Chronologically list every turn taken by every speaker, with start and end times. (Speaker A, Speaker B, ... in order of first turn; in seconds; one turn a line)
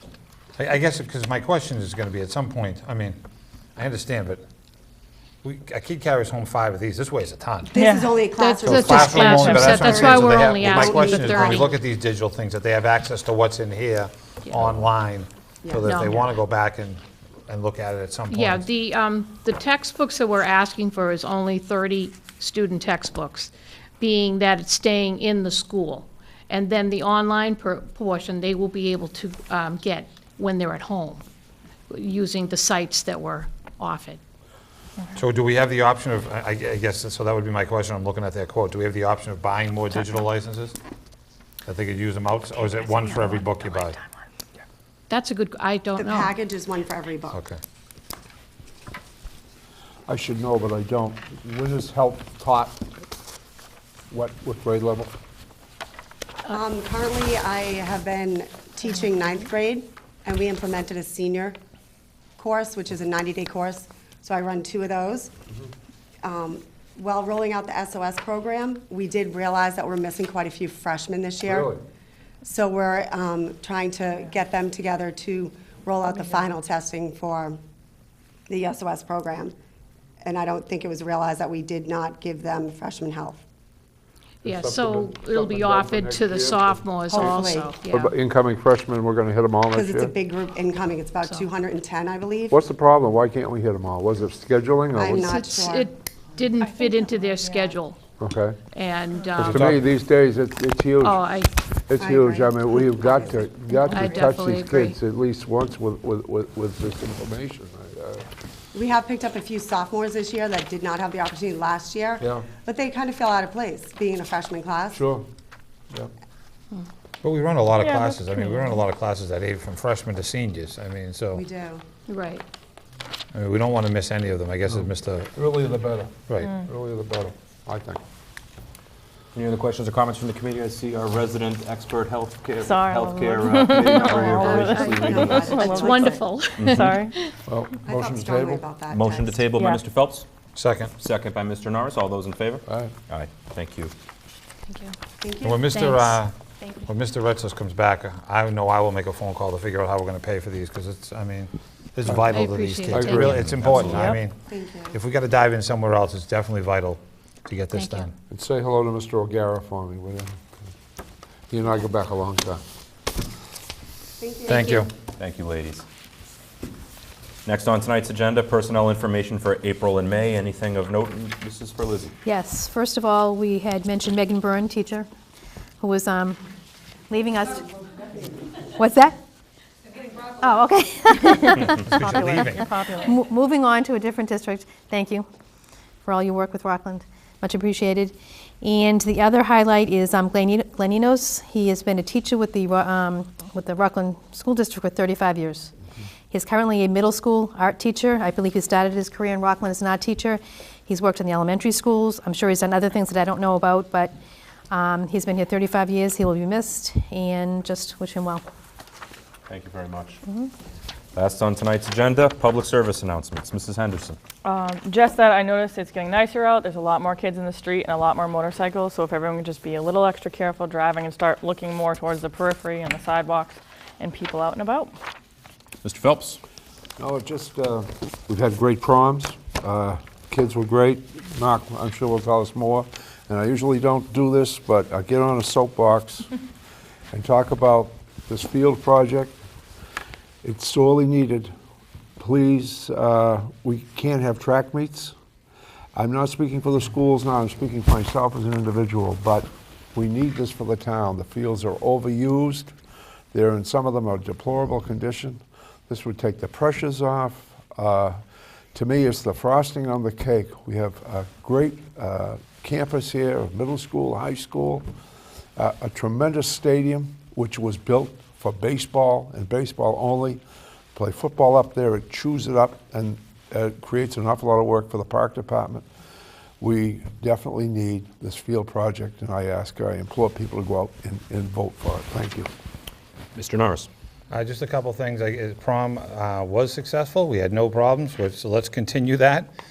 Speaker A: 0.6-3.2
Speaker A: 3.8-4.4
Speaker A: 5.4-7.7
Speaker B: 7.7-11.8
Speaker C: 7.8-8.3
Speaker D: 8.3-11.7
Speaker A: 8.6-18.7
Speaker C: 8.9-10.2
Speaker D: 15.8-16.3
Speaker D: 18.3-31.2
Speaker D: 31.9-34.2
Speaker A: 35.1-40.8
Speaker A: 41.6-44.0
Speaker D: 45.1-46.4
Speaker B: 46.0-47.4
Speaker A: 47.3-47.6
Speaker E: 50.1-52.9
Speaker E: 54.1-55.1
Speaker B: 56.5-61.6
Speaker B: 62.4-65.3
Speaker B: 66.2-71.8
Speaker E: 71.5-71.8
Speaker B: 72.4-77.6
Speaker B: 78.5-79.5
Speaker B: 80.2-83.4
Speaker D: 84.4-88.1
Speaker E: 84.4-90.1
Speaker B: 87.1-87.8
Speaker B: 89.7-92.6
Speaker D: 91.2-91.5
Speaker E: 92.5-95.3
Speaker B: 94.9-95.9
Speaker D: 95.2-98.0
Speaker C: 96.6-97.8
Speaker E: 98.2-98.6
Speaker D: 98.7-99.6
Speaker E: 99.4-101.2
Speaker A: 99.5-99.8
Speaker D: 101.0-101.5
Speaker E: 101.9-108.2
Speaker B: 102.0-103.5
Speaker D: 103.7-105.0
Speaker B: 108.7-115.0
Speaker E: 112.2-112.5
Speaker E: 114.9-115.2
Speaker A: 117.2-121.4
Speaker C: 117.8-118.7
Speaker B: 121.3-121.8
Speaker D: 122.1-122.4
Speaker A: 123.3-125.3
Speaker E: 124.7-128.0
Speaker A: 126.3-126.6
Speaker F: 129.3-135.6
Speaker C: 132.6-136.2
Speaker D: 133.9-137.3
Speaker B: 134.1-136.1
Speaker F: 136.6-136.9
Speaker C: 136.8-137.1
Speaker E: 137.5-138.6
Speaker B: 137.8-139.4
Speaker F: 138.9-140.2
Speaker C: 139.6-139.8
Speaker A: 140.5-140.9
Speaker F: 141.0-143.9
Speaker E: 142.7-142.9
Speaker B: 145.2-145.8
Speaker A: 145.4-146.3
Speaker D: 145.7-146.2
Speaker A: 146.8-158.1
Speaker D: 152.3-153.9
Speaker E: 152.9-153.9
Speaker C: 153.9-154.2
Speaker B: 154.5-154.9
Speaker D: 157.7-158.1
Speaker E: 158.3-160.6
Speaker E: 161.5-162.6
Speaker B: 164.2-164.8
Speaker A: 164.4-164.9
Speaker F: 165.2-165.8
Speaker F: 167.4-172.1
Speaker G: 172.2-175.1
Speaker G: 175.8-176.4
Speaker G: 177.1-177.6
Speaker G: 178.6-179.2
Speaker G: 180.2-185.2
Speaker A: 181.8-182.7
Speaker C: 181.9-183.1
Speaker G: 186.1-195.7
Speaker G: 196.3-204.1
Speaker G: 204.7-208.4
Speaker F: 209.5-210.2
Speaker F: 211.1-214.2
Speaker C: 214.4-224.9
Speaker F: 225.8-226.4
Speaker E: 227.0-236.3
Speaker E: 237.1-239.3
Speaker E: 240.4-241.5
Speaker E: 242.2-245.1
Speaker E: 245.9-252.7
Speaker E: 253.3-258.2
Speaker E: 258.7-264.9
Speaker E: 265.6-270.4
Speaker E: 270.9-275.9
Speaker E: 276.6-282.5
Speaker F: 283.3-283.9
Speaker A: 284.3-289.5